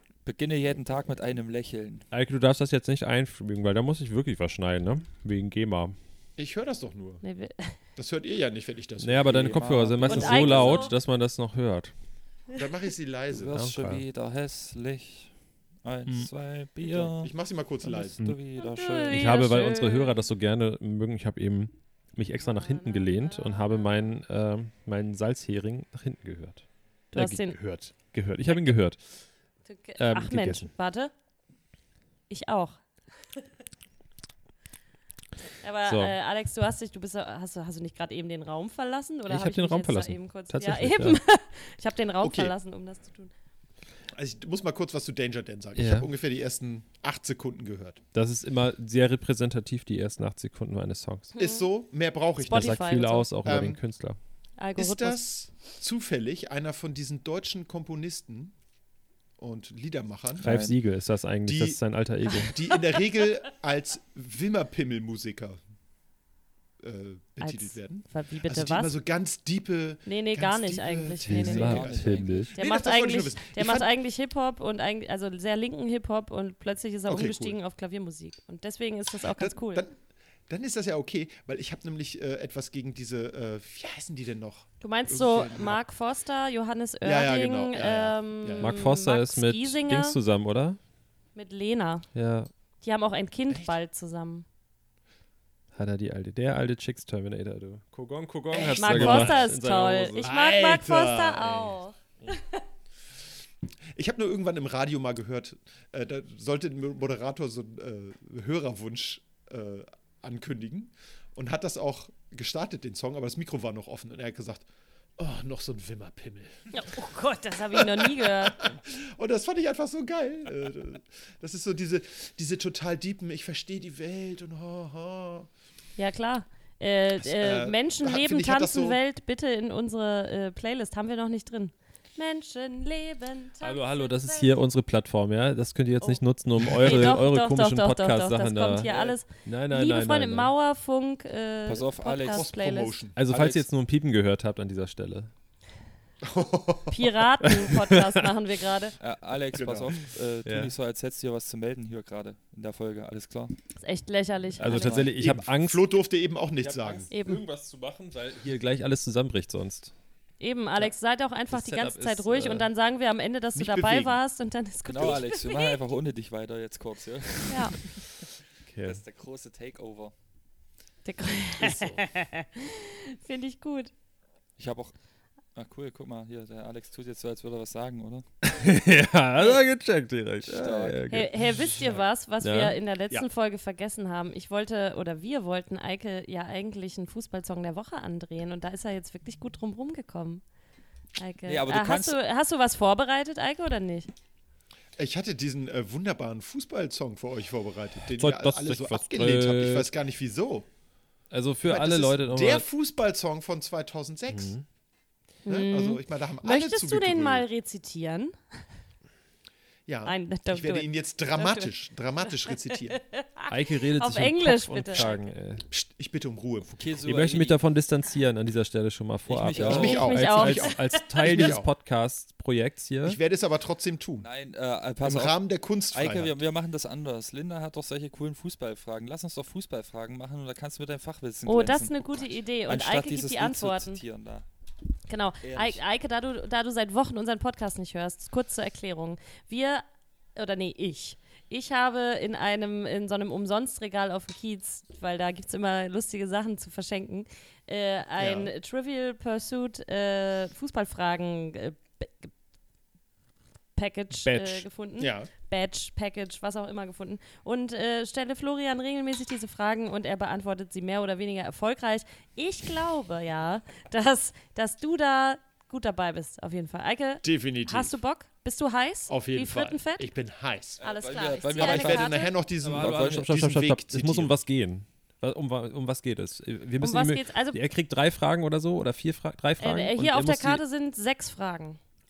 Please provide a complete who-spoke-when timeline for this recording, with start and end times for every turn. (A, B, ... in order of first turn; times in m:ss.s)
0:00.2-0:02.0 A
0:02.1-0:06.0 B
0:06.4-0:07.2 C
0:07.2-0:07.8 D
0:08.0-0:10.1 C
0:09.0-0:11.9 B
0:09.2-0:10.9 A
0:10.0-0:10.9 D
0:12.5-0:13.7 C
0:13.3-0:15.3 A
0:13.5-0:14.0 B
0:15.8-0:17.3 A
0:16.8-0:18.2 C
0:17.8-0:19.4 A
0:18.6-0:20.2 D
0:19.1-0:29.0 B
0:22.5-0:23.8 D
0:27.1-0:27.6 D
0:29.6-0:31.1 D
0:30.0-0:30.7 B
0:32.3-0:32.8 D
0:35.6-0:43.3 D
0:35.9-0:36.1 B
0:39.3-0:41.2 B
0:42.2-0:42.5 C
0:44.1-0:48.0 C
0:45.8-0:46.1 B
0:48.1-0:51.3 B
0:51.3-0:51.6 D
0:51.4-0:52.8 C
0:52.4-0:54.2 B
0:52.5-0:53.3 D
0:53.4-0:53.8 C
0:54.6-0:55.2 D
0:54.8-0:58.5 C
0:59.4-1:00.6 C
1:00.4-1:00.8 A
1:00.4-1:02.6 B
1:01.4-1:05.6 C
1:06.8-1:13.9 C
1:07.4-1:08.9 D
1:10.0-1:11.8 D
1:11.2-1:12.5 B
1:11.5-1:12.5 A
1:12.6-1:19.8 D
1:17.0-1:17.6 C
1:19.3-1:25.8 C
1:24.8-1:30.2 D
1:27.0-1:28.8 C
1:28.6-1:30.8 B
1:31.3-1:32.1 D
1:32.1-1:32.5 B
1:32.8-1:34.4 D
1:33.5-1:33.7 C
1:35.7-1:40.3 B
1:38.5-1:39.5 C
1:38.6-1:42.6 D
1:40.2-1:41.8 C
1:43.9-1:54.6 C
1:55.2-1:56.5 C
1:56.7-1:58.7 D
1:57.7-2:05.5 C
2:06.0-2:14.6 D
2:07.2-2:09.0 C
2:13.6-2:18.9 B
2:16.7-2:23.0 D
2:18.8-2:19.1 A
2:19.4-2:20.5 B
2:21.7-2:22.5 A
2:22.2-2:23.2 C
2:23.2-2:25.3 B
2:23.3-2:23.7 A
2:26.2-2:27.1 C
2:26.9-2:29.0 D
2:27.4-2:28.3 B
2:29.0-2:33.5 A
2:29.5-2:30.0 C
2:30.4-2:30.7 B
2:33.8-2:35.1 D
2:34.6-2:35.9 B
2:34.7-2:35.0 A
2:35.0-2:37.1 C
2:36.6-2:39.9 B
2:37.1-2:37.4 D
2:40.4-2:45.7 D
2:41.5-2:42.7 B
2:43.5-2:44.2 C
2:44.9-2:47.9 A
2:47.5-2:47.8 D
2:48.7-2:49.0 B
2:48.8-2:50.1 A
2:51.0-2:53.9 D
2:51.6-2:52.0 C
2:54.6-2:54.9 A
2:55.5-2:58.2 A
2:58.4-3:01.3 B
3:00.4-3:01.0 A
3:01.1-3:10.4 D
3:02.4-3:02.8 B
3:11.2-3:14.1 D
3:11.4-3:12.2 A
3:15.0-3:20.7 C
3:18.2-3:19.9 B
3:21.3-3:22.6 B
3:21.6-3:24.5 C
3:24.3-3:24.6 B
3:25.4-3:28.6 D
3:25.4-3:27.4 C
3:29.9-3:33.0 C
3:30.0-3:31.7 D
3:32.5-3:35.2 D
3:33.5-3:35.6 B
3:35.7-3:37.0 C
3:36.8-3:37.6 A
3:37.0-3:43.2 B
3:39.2-3:40.0 A
3:39.5-3:41.7 C
3:39.7-3:41.5 D
3:43.0-3:44.3 C
3:44.2-3:45.4 A
3:45.0-3:46.4 C
3:45.9-3:51.9 A
3:51.4-3:54.0 D
3:52.7-3:54.4 A
3:55.1-4:12.3 D
3:55.4-3:55.8 A
4:08.2-4:08.5 C
4:13.8-4:30.1 D
4:14.2-4:14.6 B
4:15.0-4:15.3 C
4:27.2-4:27.9 C
4:29.1-4:30.8 C
4:30.8-4:33.3 A
4:30.8-4:32.3 D
4:31.5-4:34.4 C
4:32.6-4:40.6 B
4:36.8-4:37.6 D
4:39.6-4:41.8 D